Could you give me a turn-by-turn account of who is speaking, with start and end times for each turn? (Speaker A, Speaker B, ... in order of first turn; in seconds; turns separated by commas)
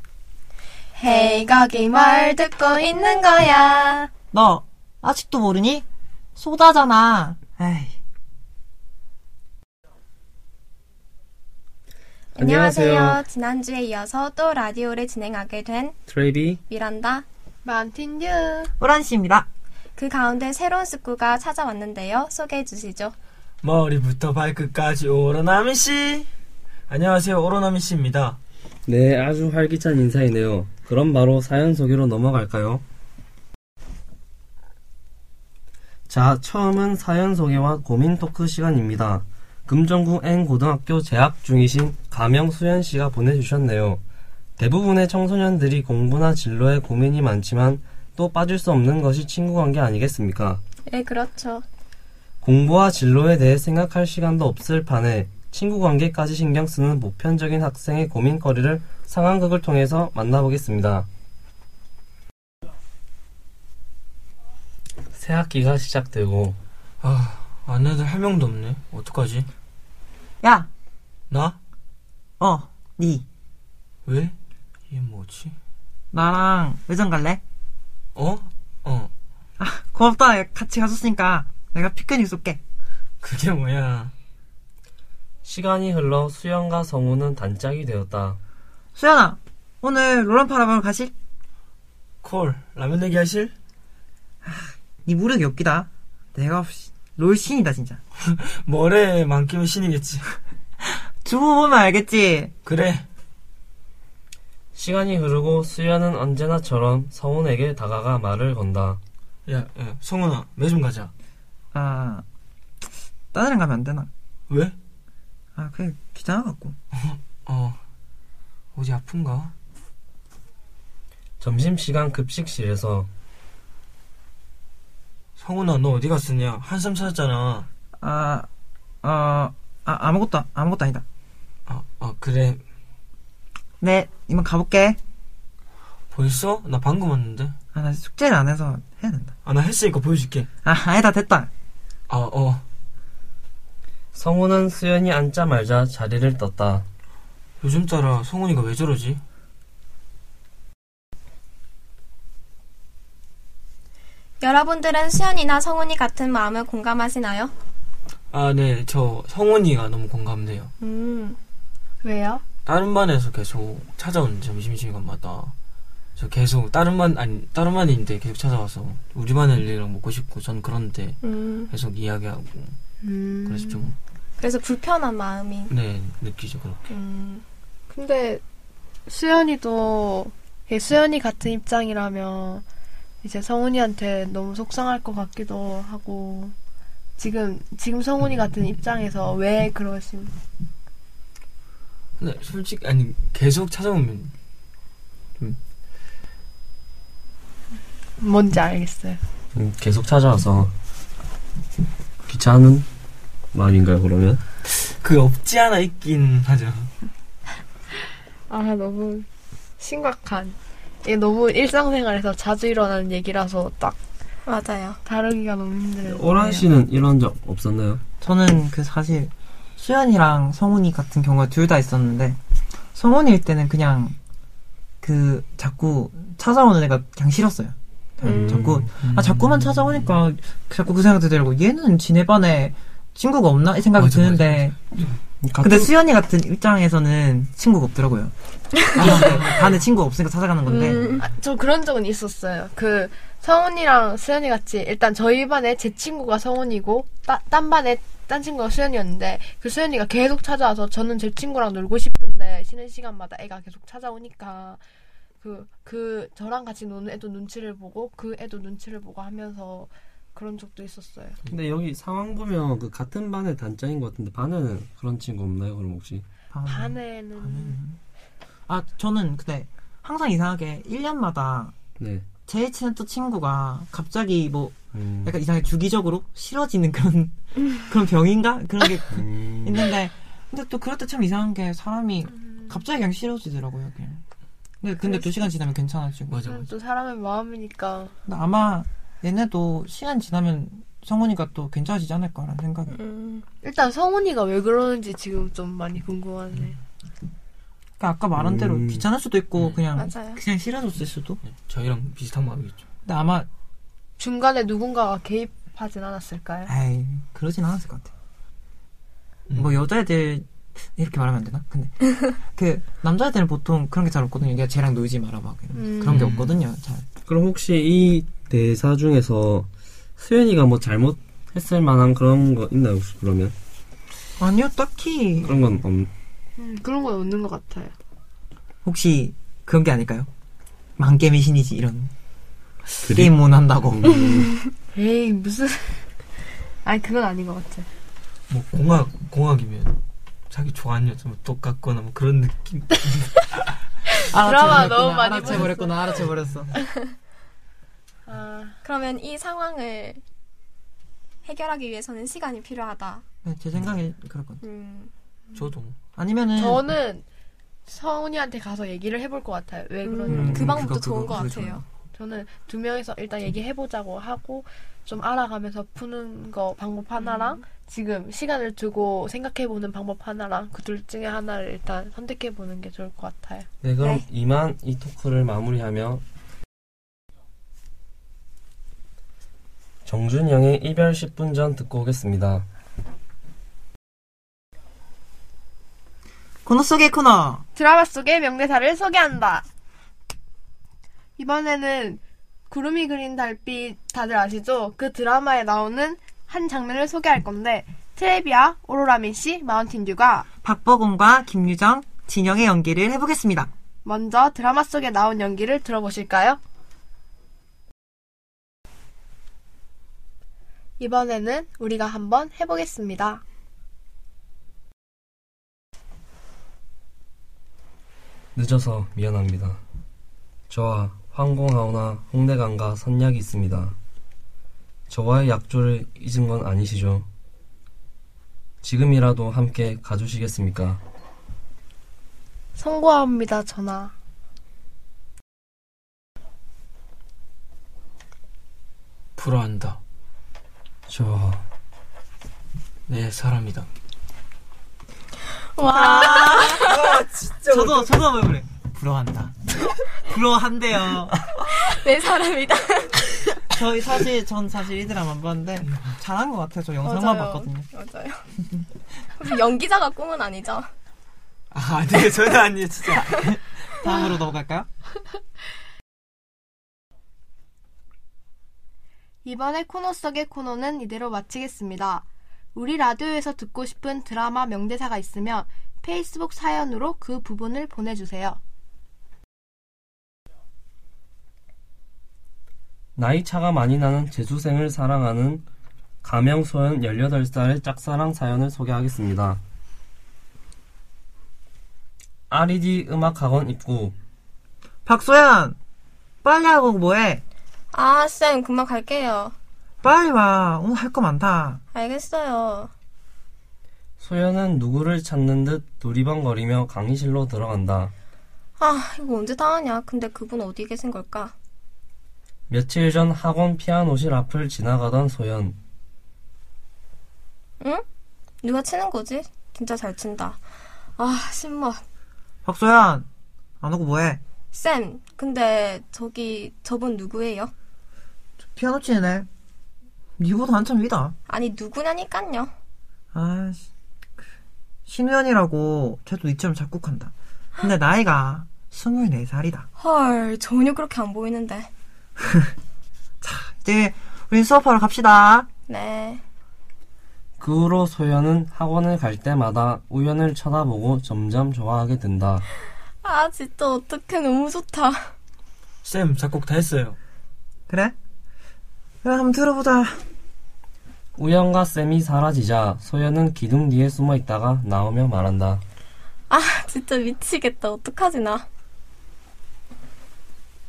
Speaker A: 1.0-3.9, Speaker B: 2.6-4.0, Speaker C: 4.3-5.8, Speaker C: 6.4-8.0, Speaker B: 12.4-16.0, Speaker D: 12.4-13.2, Speaker D: 16.1-16.6, Speaker B: 16.7-17.3, Speaker A: 17.6-18.7, Speaker C: 18.8-19.5, Speaker B: 20.0-23.1, Speaker E: 23.6-26.3, Speaker E: 26.9-28.4, Speaker D: 28.9-32.8, Speaker D: 36.1-44.0, Speaker D: 44.6-50.6, Speaker B: 50.9-51.6, Speaker D: 52.4-61.1, Speaker D: 65.1-66.6, Speaker E: 67.0-69.5, Speaker C: 70.4-70.7, Speaker E: 71.3-71.6, Speaker C: 72.4-73.2, Speaker E: 74.1-74.3, Speaker E: 74.9-75.6, Speaker C: 76.1-77.4, Speaker E: 78.2-79.1, Speaker C: 79.6-82.6, Speaker E: 83.2-84.1, Speaker D: 85.4-88.4, Speaker C: 89.0-91.1, Speaker E: 92.2-93.5, Speaker C: 94.4-98.0, Speaker E: 98.2-100.3, Speaker C: 101.2-102.5, Speaker E: 102.7-103.0, Speaker D: 104.8-109.0, Speaker E: 109.5-111.1, Speaker C: 111.7-112.2, Speaker C: 113.3-114.1, Speaker E: 114.5-114.8, Speaker C: 115.6-116.8, Speaker E: 117.0-117.8, Speaker E: 118.8-119.5, Speaker D: 121.4-123.1, Speaker E: 125.4-127.7, Speaker C: 128.0-128.5, Speaker C: 129.0-131.0, Speaker E: 131.7-132.6, Speaker C: 133.8-135.0, Speaker E: 136.1-137.6, Speaker C: 137.7-139.3, Speaker E: 139.4-140.5, Speaker C: 140.6-141.5, Speaker E: 142.1-142.6, Speaker D: 144.1-146.8, Speaker E: 147.6-149.2, Speaker B: 154.4-157.5, Speaker E: 158.3-160.7, Speaker B: 160.8-161.4, Speaker A: 162.0-162.4, Speaker E: 162.7-165.5, Speaker E: 166.2-171.2, Speaker B: 171.2-171.7, Speaker E: 171.7-172.8, Speaker A: 173.0-173.9, Speaker E: 173.5-173.9, Speaker B: 174.4-175.7, Speaker E: 175.7-176.8, Speaker B: 176.9-177.4, Speaker A: 177.9-178.4, Speaker A: 179.1-182.6, Speaker A: 183.2-186.5, Speaker A: 187.2-190.3, Speaker E: 192.2-194.3, Speaker A: 198.2-199.2, Speaker D: 199.5-200.7, Speaker D: 202.3-202.9, Speaker D: 203.5-204.4, Speaker E: 205.0-206.9, Speaker A: 208.5-209.3, Speaker A: 209.8-214.0, Speaker B: 214.5-215.0, Speaker A: 215.1-216.7, Speaker D: 216.0-218.0, Speaker C: 218.2-222.4, Speaker C: 222.9-224.2, Speaker C: 225.0-234.8, Speaker B: 228.2-228.7, Speaker E: 228.5-229.8, Speaker D: 228.6-228.8, Speaker E: 234.0-235.1, Speaker D: 235.4-235.9, Speaker C: 235.6-238.3, Speaker C: 238.9-241.2, Speaker E: 239.0-239.6, Speaker B: 240.7-241.2, Speaker A: 241.2-254.8, Speaker A: 255.4-261.4, Speaker D: 261.5-266.2, Speaker C: 266.5-268.0, Speaker A: 266.7-267.8, Speaker C: 268.7-271.8, Speaker D: 272.0-272.3, Speaker C: 272.5-284.2, Speaker D: 274.9-275.3, Speaker D: 279.1-279.8, Speaker C: 284.8-286.4, Speaker A: 285.0-285.5, Speaker E: 286.3-286.7, Speaker A: 286.4-288.1, Speaker C: 288.3-292.9, Speaker B: 292.9-293.4, Speaker A: 293.6-296.8, Speaker C: 298.0-301.4, Speaker D: 298.4-299.1, Speaker B: 300.0-300.4, Speaker E: 301.5-302.8, Speaker C: 303.1-303.5, Speaker A: 304.2-306.7, Speaker C: 306.7-308.1, Speaker E: 309.5-309.8, Speaker C: 309.6-317.1, Speaker A: 315.8-316.3, Speaker E: 316.1-316.6, Speaker D: 317.2-323.6, Speaker C: 324.4-325.5, Speaker D: 325.4-326.1, Speaker A: 326.6-327.9, Speaker C: 328.9-330.3, Speaker C: 331.0-332.1, Speaker D: 333.0-333.3, Speaker C: 333.0-334.1, Speaker D: 333.9-334.5, Speaker A: 334.3-336.0, Speaker A: 336.9-337.9, Speaker E: 338.5-340.0, Speaker E: 340.5-343.3, Speaker A: 344.1-346.1, Speaker C: 344.3-346.7, Speaker A: 348.3-348.8, Speaker B: 348.8-350.2, Speaker B: 351.4-353.2, Speaker C: 353.4-354.6, Speaker B: 354.6-355.1, Speaker E: 355.6-356.0, Speaker C: 356.2-356.8, Speaker A: 356.6-357.2, Speaker A: 357.9-360.8, Speaker B: 360.1-361.8, Speaker C: 360.3-361.8, Speaker A: 362.1-373.7, Speaker B: 367.2-367.6, Speaker D: 373.8-376.2, Speaker D: 380.1-382.6, Speaker C: 386.6-387.6, Speaker A: 387.8-389.6, Speaker A: 391.4-400.5, Speaker C: 400.6-403.7, Speaker A: 404.1-406.6, Speaker A: 411.0-413.4, Speaker D: 418.6-419.8, Speaker D: 420.7-424.0, Speaker D: 425.1-427.3, Speaker D: 428.8-431.0, Speaker A: 432.8-434.1, Speaker E: 439.4-440.0, Speaker D: 441.1-441.6, Speaker E: 443.1-443.9, Speaker B: 445.8-447.0, Speaker C: 445.8-446.9, Speaker E: 446.8-448.1, Speaker C: 447.7-449.5, Speaker C: 450.1-451.5, Speaker B: 451.6-453.6, Speaker C: 453.7-457.9, Speaker B: 457.0-458.5, Speaker B: 459.3-460.9, Speaker E: 461.7-463.5, Speaker C: 463.3-464.9, Speaker A: 469.4-478.6, Speaker D: 483.2-485.6, Speaker D: 486.2-489.6, Speaker D: 492.5-494.1, Speaker C: 495.1-495.8, Speaker C: 496.4-497.4, Speaker B: 497.9-499.6, Speaker C: 500.0-501.8, Speaker B: 501.9-502.9, Speaker D: 504.2-508.1, Speaker B: 508.8-511.5, Speaker D: 512.7-515.8, Speaker B: 518.6-520.6, Speaker B: 521.2-522.0, Speaker C: 522.6-523.3, Speaker C: 523.8-524.4, Speaker B: 524.7-527.7, Speaker C: 528.7-529.5, Speaker C: 530.4-531.4, Speaker B: 531.5-532.7, Speaker C: 533.3-533.9, Speaker C: 535.1-539.9, Speaker B: 540.0-541.9, Speaker C: 542.4-542.7, Speaker C: 543.4-545.7, Speaker B: 545.9-546.4, Speaker D: 547.6-552.6, Speaker B: 553.2-555.3, Speaker E: 556.0-557.2, Speaker C: 557.9-558.1, Speaker C: 559.2-560.2, Speaker D: 561.4-565.8, Speaker B: 566.5-568.7